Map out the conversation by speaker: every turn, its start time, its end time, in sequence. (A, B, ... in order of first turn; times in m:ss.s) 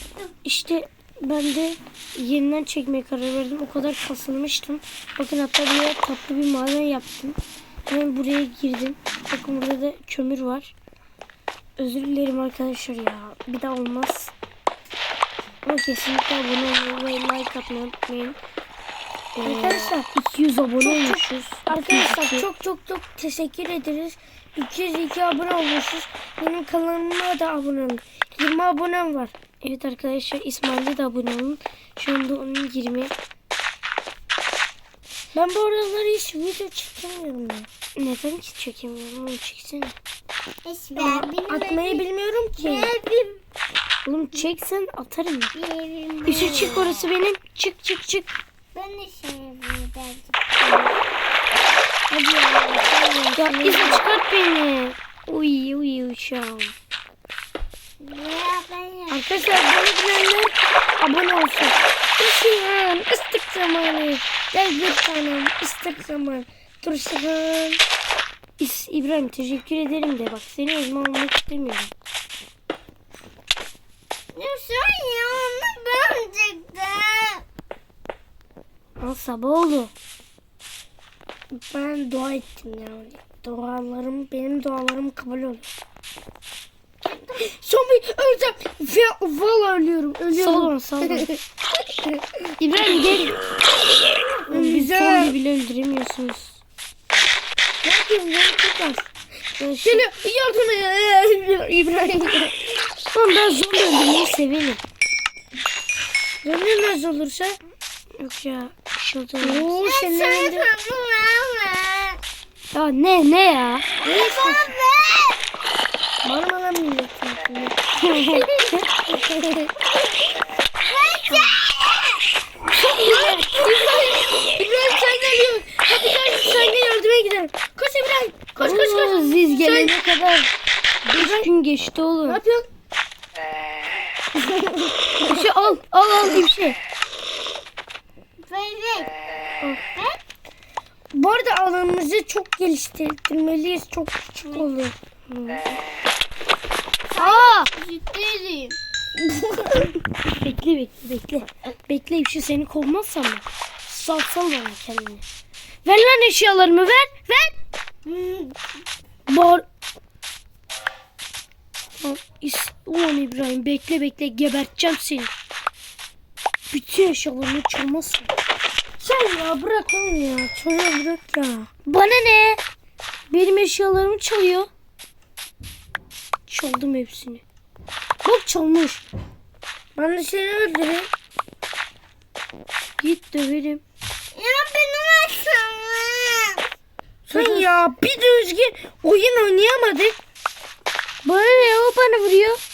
0:00.4-0:10.7 A
0:11.8-0:14.3 A
0:15.6-0:18.4 A
0:19.3-0:22.5 A
0:19.4-0:20.1 B
0:20.8-0:29.3 B
0:29.6-0:33.1 A
0:35.3-0:37.7 B
0:38.0-0:40.0 A
0:40.6-0:42.0 C
0:41.0-0:42.9 B
0:42.6-0:43.4 C
0:44.0-0:45.5 A
0:45.5-0:47.0 C
0:46.2-0:48.3 A
0:48.7-0:50.9 C
0:52.1-0:54.0 B
0:53.4-0:56.7 A
0:58.0-0:59.2 C
0:59.1-1:07.8 B
1:08.6-1:11.9 A
1:14.3-1:17.4 C
1:19.0-1:19.9 A
1:21.5-1:25.7 B
1:27.0-1:27.5 C
1:27.4-1:31.4 B
1:30.3-1:31.3 A
1:32.6-1:33.4 A
1:32.8-1:33.2 B
1:34.5-1:35.4 B
1:34.5-1:36.6 A
1:37.8-1:39.1 B
1:39.6-1:40.0 A
1:39.8-1:42.6 B
1:43.1-1:44.8 A
1:46.4-1:47.6 B
1:48.2-1:49.7 A
1:49.4-1:50.7 B
1:49.7-1:52.2 C
1:52.7-1:53.9 A
1:54.0-1:55.4 C
1:54.0-1:54.7 B
1:56.2-1:57.8 B
1:58.1-1:58.4 A
1:58.3-1:58.8 C
2:00.8-2:02.1 C
2:01.3-2:01.5 A
2:02.7-2:10.0 B
2:08.6-2:10.5 A
2:11.1-2:12.4 A
2:11.1-2:11.5 B
2:12.2-2:12.7 B
2:14.4-2:14.9 B
2:15.2-2:16.8 A
2:18.4-2:19.2 C
2:21.1-2:24.9 B
2:25.3-2:25.8 A
2:27.1-2:28.8 C
2:27.2-2:27.7 A
2:29.3-2:29.9 B
2:30.2-2:35.2 A
2:35.8-2:37.6 A
2:38.0-2:38.6 C
2:39.3-2:39.6 A
2:42.0-2:45.3 A
2:46.7-2:48.3 A
2:49.0-2:51.7 B
2:51.8-2:52.6 A
2:53.3-2:54.7 A
2:56.5-2:57.4 A
2:58.2-2:59.0 A
3:00.0-3:01.1 B
3:03.0-3:03.8 A
3:04.3-3:06.6 C
3:07.3-3:07.7 A
3:07.3-3:10.2 B
3:11.2-3:12.6 A